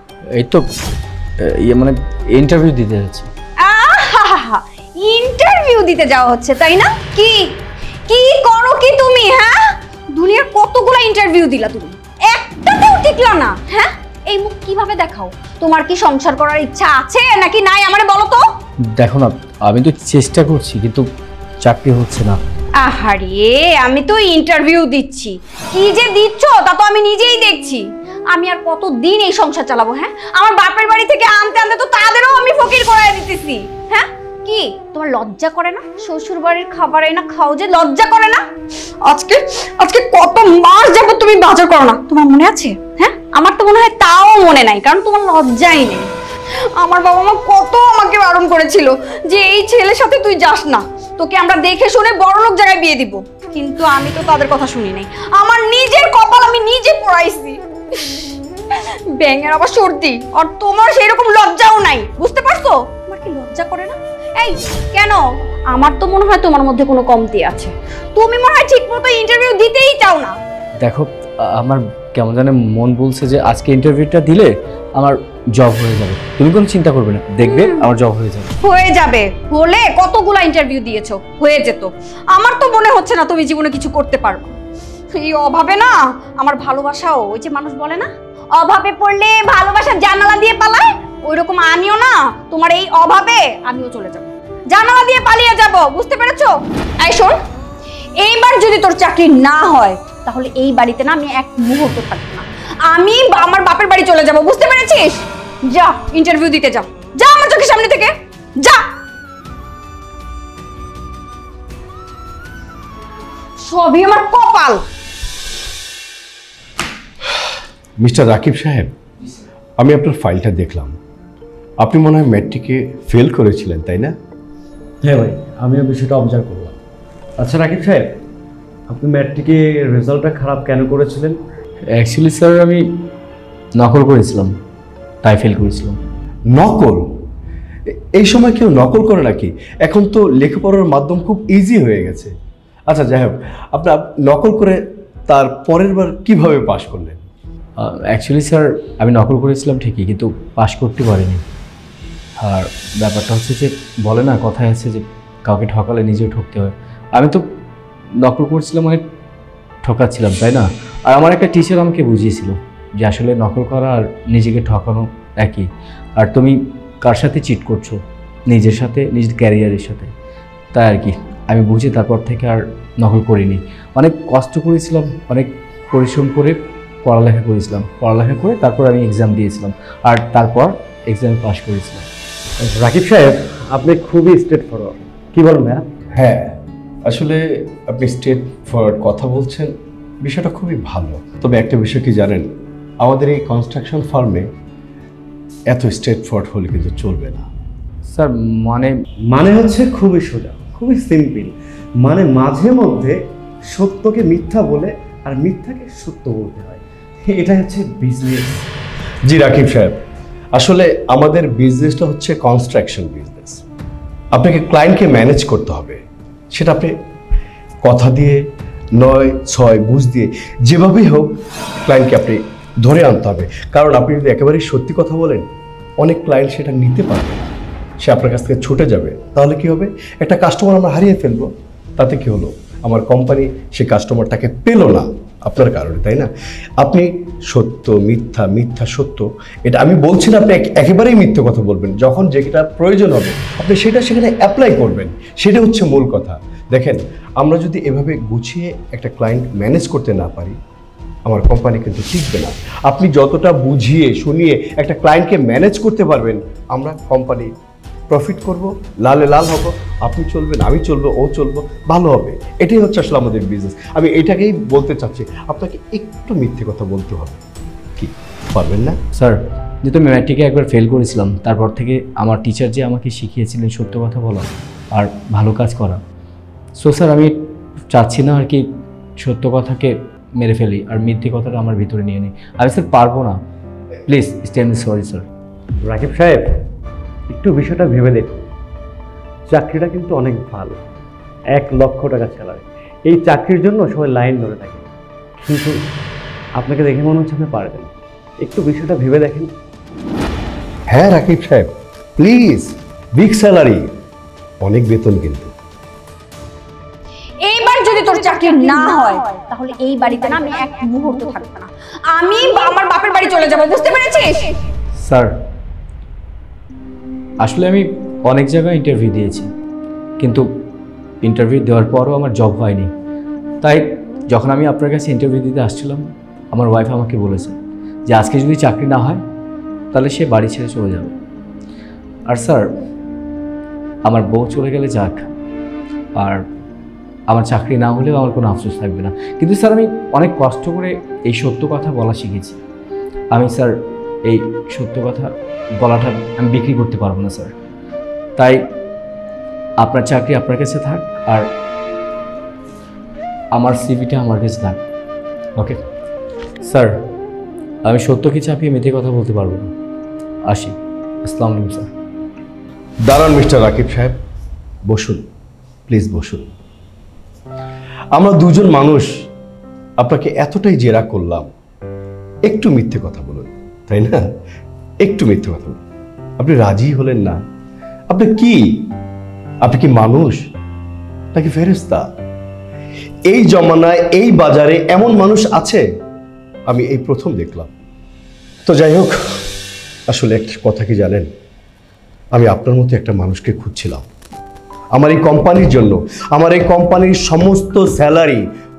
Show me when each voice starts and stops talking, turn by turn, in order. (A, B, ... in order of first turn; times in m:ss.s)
0:00.3-0:00.6 A
0:01.4-0:03.3 A
0:03.6-0:07.6 B
0:08.1-0:18.4 B
0:19.0-0:21.1 A
0:21.6-0:22.4 A
0:22.8-0:38.4 B
0:39.1-0:46.1 B
0:46.8-1:05.2 B
1:05.7-1:10.4 B
1:10.8-1:18.5 A
1:17.4-1:17.8 B
1:18.6-1:24.5 B
1:25.1-1:37.4 B
1:38.2-1:48.8 B
1:53.6-1:54.8 B
1:58.0-1:58.9 C
1:59.8-2:01.0 C
2:01.8-2:04.1 C
2:05.0-2:06.8 D
2:07.4-2:08.1 D
2:08.9-2:11.4 D
2:12.0-2:12.8 A
2:13.8-2:14.5 A
2:15.2-2:16.0 A
2:16.5-2:17.1 C
2:18.2-2:22.3 C
2:22.9-2:27.2 C
2:27.8-2:31.4 A
2:32.4-2:37.4 A
2:38.2-2:39.0 A
2:39.8-2:50.1 A
2:50.7-3:02.0 A
3:02.6-3:05.8 D
3:06.2-3:12.5 C
3:13.0-3:14.5 C
3:15.7-3:17.5 C
3:18.1-3:19.0 A
3:19.3-3:21.5 D
3:19.4-3:19.8 C
3:22.0-3:23.1 D
3:23.7-3:28.6 D
3:29.3-3:30.0 C
3:30.5-3:33.6 C
3:34.3-3:36.9 C
3:37.8-3:38.4 C
3:39.0-3:41.3 C
3:41.9-3:45.5 C
3:46.0-4:10.6 C
4:11.3-4:17.5 C
4:18.1-4:27.4 C
4:28.0-4:29.0 C
4:29.2-4:36.0 A
4:36.8-4:37.3 A
4:37.9-4:38.6 A
4:39.2-4:43.4 A
4:44.1-4:45.3 A
4:45.8-4:46.5 D
4:47.3-4:48.5 D
4:49.5-4:50.8 D
4:51.5-4:54.9 D
4:55.4-4:55.8 D
4:56.6-4:59.5 D
5:00.9-5:03.9 C
5:04.6-5:05.5 C
5:07.4-5:14.6 B
5:15.0-5:15.3 A
5:17.4-5:19.5 A
5:20.2-5:20.5 A
5:21.2-5:22.9 A
5:23.6-5:27.6 A
5:28.1-5:29.2 A
5:29.9-5:31.1 A
5:32.3-5:32.6 A
5:34.1-5:35.3 A
5:36.2-5:36.4 A
5:37.3-5:42.6 A
5:43.3-5:43.7 A
5:44.3-5:47.5 A
5:49.8-5:51.5 A
5:53.5-5:54.8 A
5:56.6-5:57.0 A
5:57.9-5:59.7 A
6:00.5-6:01.9 A
6:03.1-6:04.1 C
6:04.9-6:05.2 C
6:05.9-6:06.5 C
6:08.1-6:09.1 C
6:10.0-6:11.5 C
6:12.5-6:14.2 C
6:15.0-6:15.8 C
6:16.4-6:17.4 C
6:18.1-6:18.9 C
6:19.6-6:20.4 C
6:21.3-6:22.0 C
6:23.3-6:25.8 C
6:26.7-6:27.7 C
6:28.6-6:29.4 C
6:30.1-6:31.3 C
6:32.3-6:34.1 C
6:34.9-6:38.4 C